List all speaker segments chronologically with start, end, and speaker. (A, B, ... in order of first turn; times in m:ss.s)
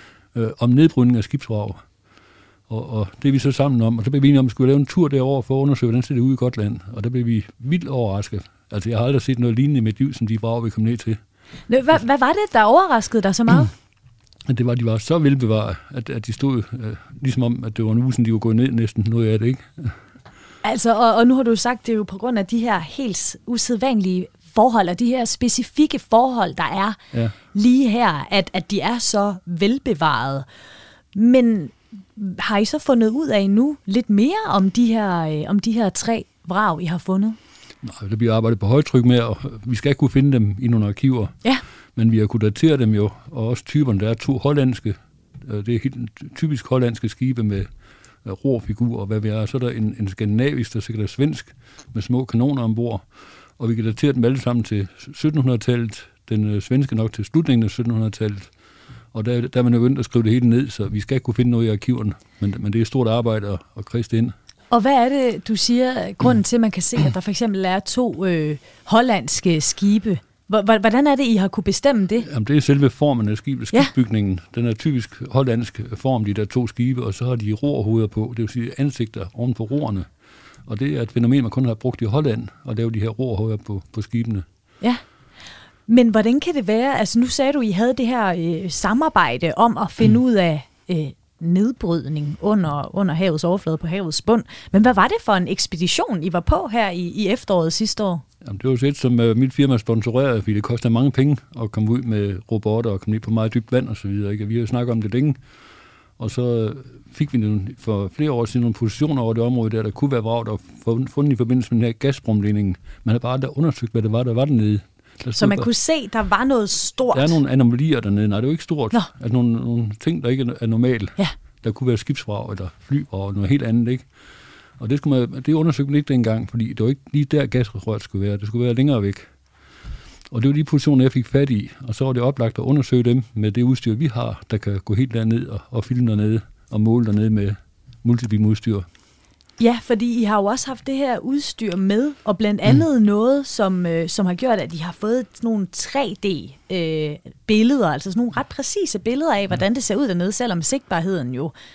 0:00.3-0:01.8 A
0:02.7-0:11.2 A
0:11.7-0:13.7 B
0:14.4-0:20.0 A
0:20.6-0:27.0 B
0:27.5-0:30.4 B
0:31.1-0:37.4 B
0:37.8-0:41.4 A
0:42.0-0:47.7 A
0:48.2-0:53.0 A
0:53.6-0:58.5 A
0:59.1-1:04.3 A
1:04.7-1:12.3 B
1:12.2-1:20.1 A
1:20.7-1:24.4 A
1:25.9-1:38.2 B
1:38.4-1:45.4 A
1:46.2-1:55.7 A
1:55.4-1:57.4 B
1:57.1-2:04.1 A
2:04.8-2:09.3 A
2:10.3-2:18.9 A
2:19.6-2:31.5 B